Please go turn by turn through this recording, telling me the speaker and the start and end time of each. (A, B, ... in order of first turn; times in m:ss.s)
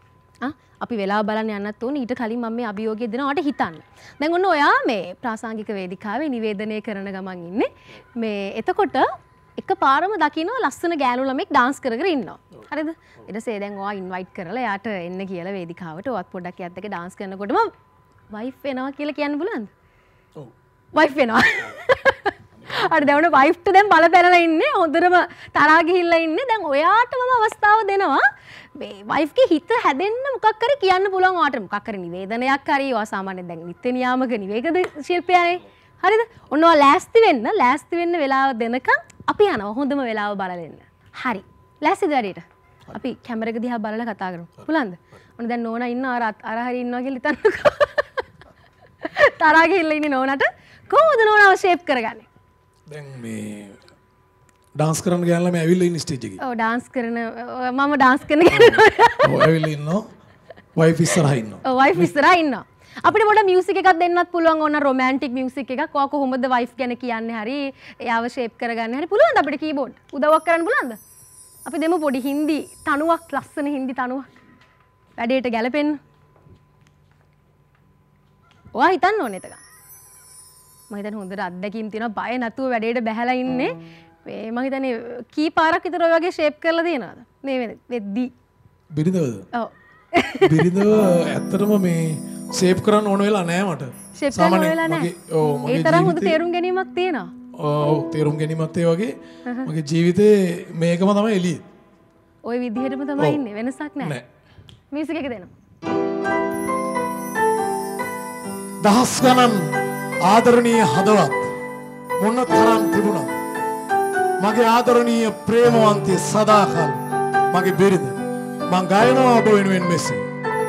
0:00.4-0:17.7 A
0:18.3-0:19.7 A
0:20.9-0:28.2 A
0:28.8-0:48.2 A
0:49.0-0:52.2 A
0:52.9-0:53.8 B
0:54.8-0:56.4 B
0:56.4-0:59.3 A
0:58.5-1:00.1 B
1:00.8-1:02.1 B
1:01.6-1:11.0 A
1:11.6-1:14.3 A
1:15.2-1:16.0 A
1:18.7-1:19.6 A
1:20.9-1:23.7 A
1:24.2-1:28.3 A
1:28.9-1:29.4 B
1:29.5-1:30.5 A
1:30.4-1:36.4 B
1:34.2-1:35.1 A
1:35.6-1:37.3 A
1:37.6-1:41.6 B
1:42.4-1:44.2 A
1:44.9-1:45.5 A
1:48.8-1:49.6 B
1:50.3-1:51.5 B
1:52.2-1:53.3 B
1:54.4-1:57.0 B
1:57.5-1:58.2 B
1:58.7-2:00.2 B